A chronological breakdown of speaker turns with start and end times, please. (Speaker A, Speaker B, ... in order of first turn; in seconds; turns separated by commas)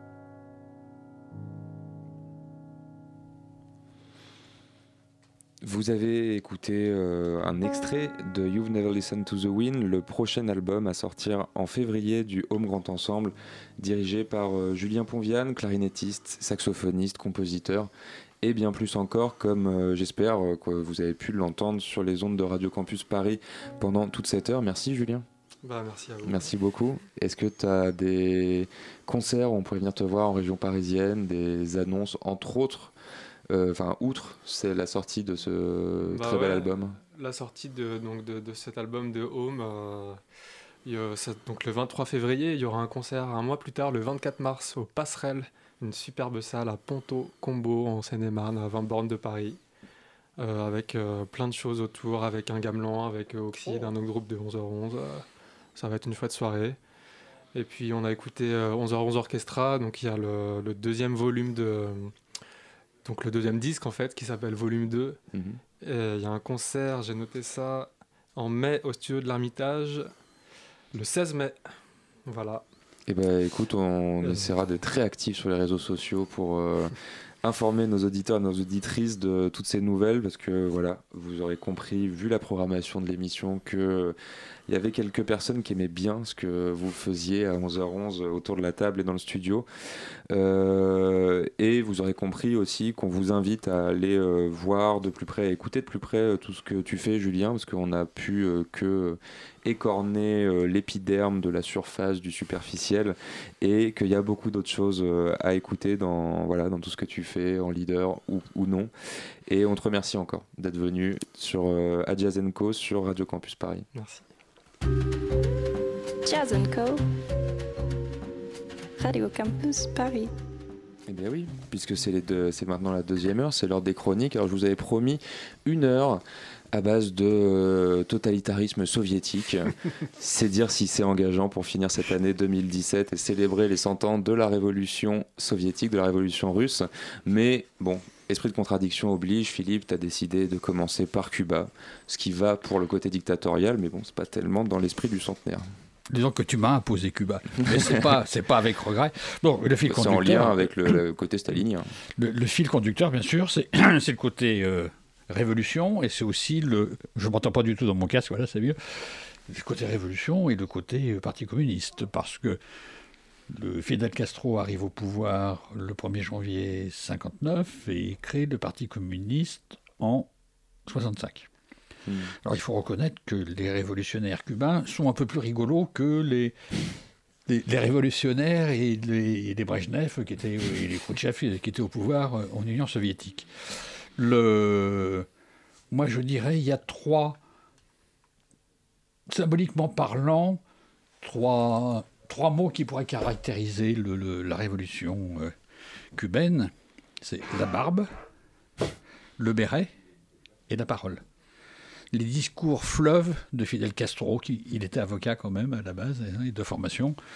Speaker A: 5.6-17.9, Speaker A: 18.4-25.3, Speaker B: 25.6-26.5, Speaker A: 26.2-32.9, Speaker A: 33.5-37.0, Speaker B: 36.1-40.2, Speaker B: 40.9-49.6, Speaker B: 50.4-55.2, Speaker B: 55.8-56.8, Speaker B: 57.5-62.1, Speaker B: 63.0-65.2, Speaker A: 65.3-65.6, Speaker B: 65.8-70.1, Speaker B: 70.9-71.7, Speaker B: 72.3-72.7, Speaker A: 73.1-84.2, Speaker B: 74.2-74.5, Speaker A: 84.7-89.7, Speaker A: 90.3-108.9, Speaker A: 109.5-113.9, Speaker B: 114.0-114.3, Speaker C: 116.2-117.0, Speaker C: 119.0-120.3, Speaker A: 121.1-145.7, Speaker D: 146.1-151.0, Speaker A: 149.8-151.9, Speaker D: 152.2-162.6, Speaker D: 163.5-170.3, Speaker D: 170.9-171.5, Speaker A: 172.1-172.3, Speaker D: 172.4-176.6, Speaker D: 177.5-183.5, Speaker D: 184.2-185.3, Speaker D: 185.9-187.4, Speaker D: 189.3-190.6, Speaker D: 191.2-195.5, Speaker D: 196.2-198.1, Speaker D: 199.4-199.9, Speaker D: 200.7-201.2, Speaker D: 202.1-207.2